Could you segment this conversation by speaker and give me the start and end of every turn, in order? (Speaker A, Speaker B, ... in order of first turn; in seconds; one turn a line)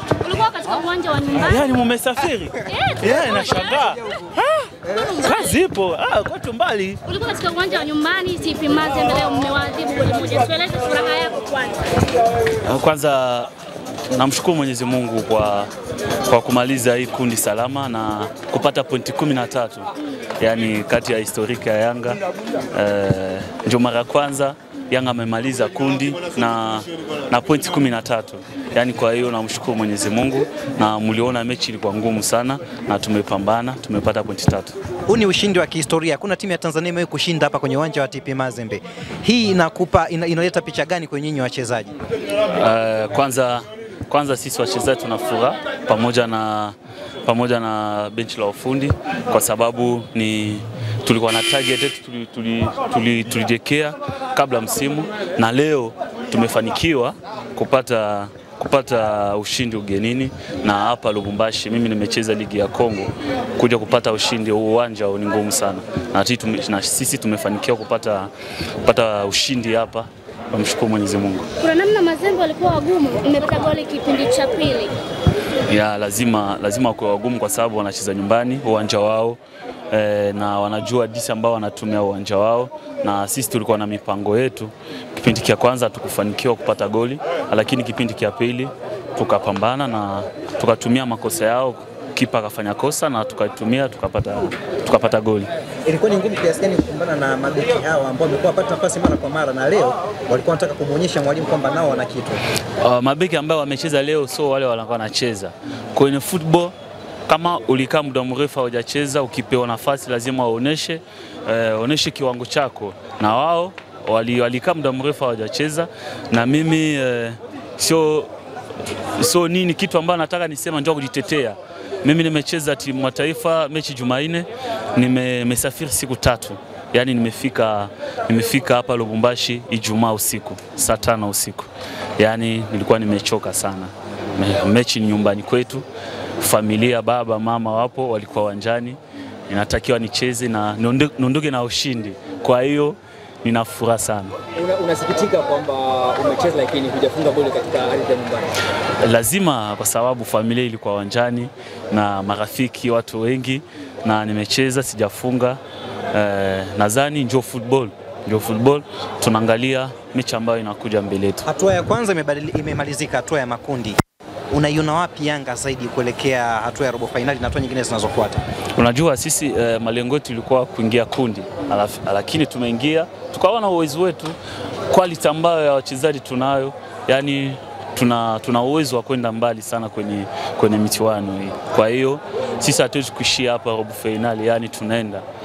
Speaker A: 0.2-1.7
Speaker B: 1.4-7.0
Speaker A: 2.6-3.9
Speaker A: 4.8-5.6
Speaker A: 7.0-11.9
Speaker B: 12.6-13.5
Speaker B: 14.1-15.7
Speaker B: 16.2-22.2
Speaker B: 22.7-34.7
Speaker C: 35.1-41.9
Speaker B: 42.5-68.3
Speaker B: 68.8-71.5
Speaker A: 71.6-74.9
Speaker B: 75.7-79.4
Speaker B: 79.9-95.5
Speaker C: 95.9-102.4
Speaker B: 102.8-106.7
Speaker B: 107.3-118.3
Speaker B: 119.0-135.9
Speaker B: 136.4-144.4
Speaker D: 144.6-148.5
Speaker B: 149.0-155.6
Speaker B: 156.1-161.5
Speaker C: 161.4-164.0
Speaker C: 164.5-168.4
Speaker B: 168.8-174.4
Speaker B: 174.9-185.2